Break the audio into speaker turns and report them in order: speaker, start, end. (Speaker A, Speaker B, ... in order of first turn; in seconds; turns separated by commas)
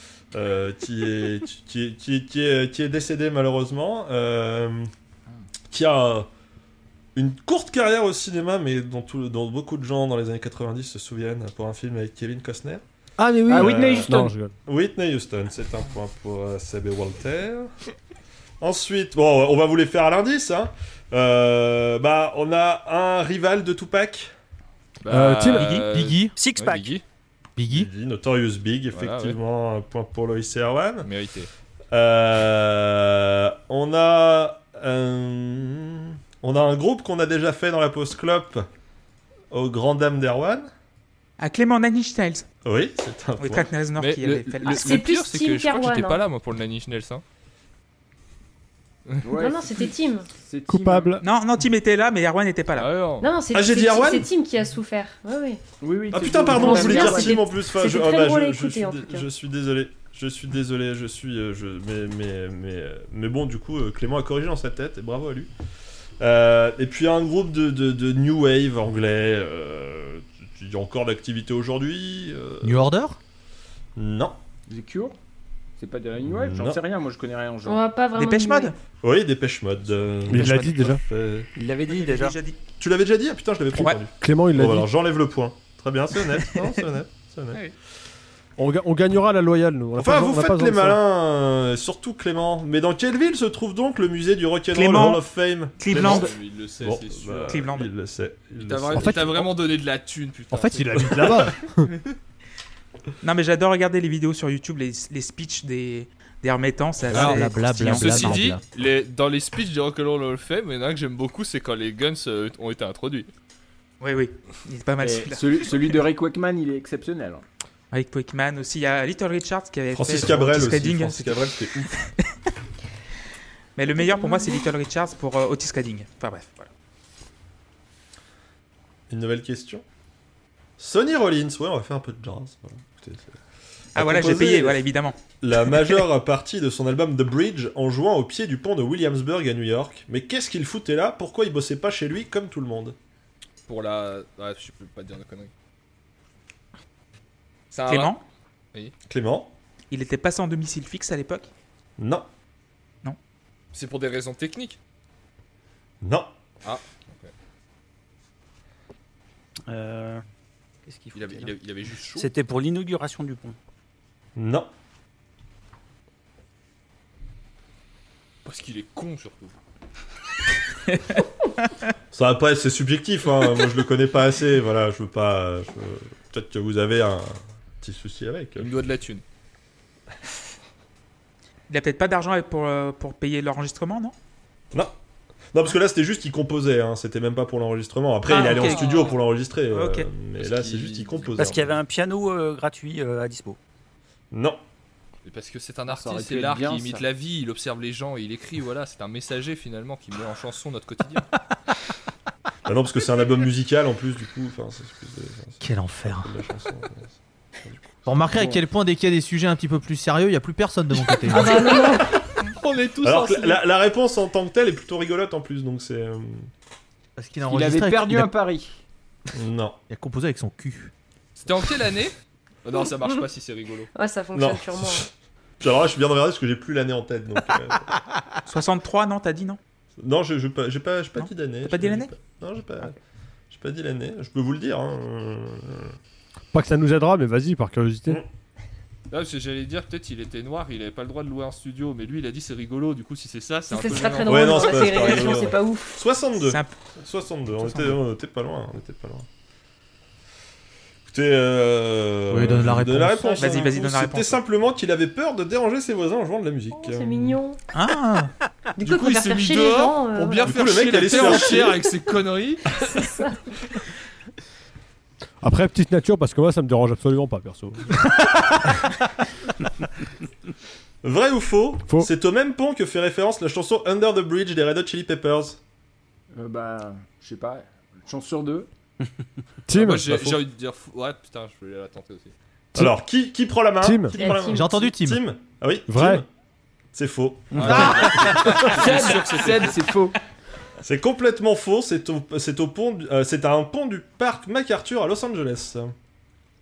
Speaker A: 0.3-4.9, Speaker A: 5.7-6.3, Speaker A: 7.1-12.8, Speaker B: 13.2-14.5, Speaker C: 13.5-14.3, Speaker A: 13.5-17.7, Speaker A: 18.6-24.3, Speaker D: 25.0-27.0, Speaker B: 25.1-25.8, Speaker E: 25.6-26.3, Speaker F: 26.4-27.0, Speaker E: 27.6-27.9, Speaker A: 27.7-31.1, Speaker D: 28.9-29.4, Speaker D: 31.0-31.5, Speaker A: 31.9-38.7, Speaker A: 39.5-40.7, Speaker G: 41.4-42.4, Speaker A: 42.6-43.7, Speaker G: 43.4-45.1, Speaker D: 44.0-47.2, Speaker H: 44.6-46.2, Speaker C: 49.2-51.2, Speaker H: 49.4-50.3, Speaker B: 50.7-51.2, Speaker G: 51.2-53.0, Speaker D: 52.8-53.3, Speaker H: 53.2-55.6, Speaker A: 53.5-54.3, Speaker C: 55.8-57.4, Speaker A: 56.1-65.5, Speaker H: 56.5-59.2, Speaker A: 66.2-72.9, Speaker E: 72.6-73.2, Speaker A: 74.0-74.4, Speaker C: 74.7-75.2, Speaker C: 75.8-77.8, Speaker A: 76.2-76.8, Speaker H: 77.6-78.8, Speaker G: 78.2-78.7, Speaker A: 79.0-81.5, Speaker B: 80.3-81.0, Speaker G: 80.3-80.9, Speaker F: 81.5-82.4, Speaker G: 81.9-82.6, Speaker A: 82.8-87.6, Speaker G: 83.7-84.0, Speaker B: 84.2-84.9, Speaker B: 88.6-91.0, Speaker A: 90.0-99.5, Speaker G: 94.7-95.2, Speaker G: 95.8-96.3, Speaker D: 95.9-97.6, Speaker G: 97.5-97.9, Speaker D: 98.6-101.5, Speaker B: 99.0-99.3, Speaker B: 100.5-101.9, Speaker G: 103.2-108.5, Speaker E: 107.1-108.6, Speaker D: 107.1-113.3, Speaker G: 114.0-116.0, Speaker C: 115.0-117.4, Speaker G: 117.9-122.1, Speaker A: 119.9-121.9, Speaker G: 123.8-126.7, Speaker H: 123.9-124.7, Speaker A: 129.1-129.8, Speaker A: 130.8-133.4, Speaker A: 133.9-134.8, Speaker G: 133.9-136.0, Speaker A: 135.4-142.9, Speaker D: 143.7-145.5, Speaker D: 147.7-148.1, Speaker G: 147.9-148.2, Speaker A: 149.1-149.5, Speaker G: 149.9-151.5, Speaker A: 152.0-152.2, Speaker D: 153.7-154.8, Speaker A: 156.0-156.3, Speaker D: 156.6-157.3, Speaker F: 159.7-160.2, Speaker F: 160.9-161.5, Speaker D: 161.1-162.3, Speaker F: 162.2-163.6, Speaker A: 164.3-164.7, Speaker D: 168.4-169.5, Speaker G: 170.9-171.7, Speaker A: 172.1-178.7, Speaker D: 178.6-179.2, Speaker G: 181.7-184.1, Speaker A: 185.5-191.8, Speaker G: 188.2-189.2, Speaker D: 188.3-189.2, Speaker G: 189.7-190.1, Speaker D: 190.4-191.6, Speaker F: 191.3-193.6, Speaker A: 194.3-194.6, Speaker D: 195.2-201.3, Speaker C: 195.9-197.1, Speaker A: 202.7-207.9, Speaker E: 205.6-206.3, Speaker E: 208.0-211.8, Speaker C: 208.3-208.6, Speaker H: 211.3-212.2, Speaker D: 212.4-213.6, Speaker A: 213.0-216.5, Speaker E: 217.2-218.3, Speaker C: 217.5-218.8, Speaker A: 219.3-219.8, Speaker E: 219.9-220.9, Speaker D: 221.4-223.9, Speaker H: 223.9-225.1, Speaker A: 224.3-227.9, Speaker G: 228.4-229.6, Speaker A: 230.0-232.9, Speaker G: 231.2-232.1, Speaker A: 233.5-235.9, Speaker B: 236.5-238.2, Speaker D: 239.1-245.3, Speaker H: 243.7-246.0, Speaker A: 244.3-249.2, Speaker G: 246.4-246.7, Speaker G: 247.6-248.0, Speaker A: 251.1-257.4, Speaker E: 252.3-253.6, Speaker G: 253.4-254.4, Speaker H: 256.7-257.6, Speaker G: 257.7-258.3, Speaker H: 258.8-261.8, Speaker D: 258.8-262.9, Speaker A: 260.4-261.8, Speaker H: 262.8-263.4, Speaker B: 265.4-268.4, Speaker A: 271.0-275.6, Speaker C: 276.3-278.7, Speaker B: 279.7-280.2, Speaker D: 279.7-282.3, Speaker A: 280.1-280.4, Speaker A: 282.7-286.3, Speaker B: 283.8-284.2, Speaker H: 284.1-284.9, Speaker E: 284.5-285.2, Speaker B: 285.9-286.2, Speaker A: 286.9-288.7, Speaker F: 287.5-288.3, Speaker D: 287.5-289.9, Speaker E: 287.7-287.9, Speaker C: 287.7-290.2, Speaker A: 290.8-295.9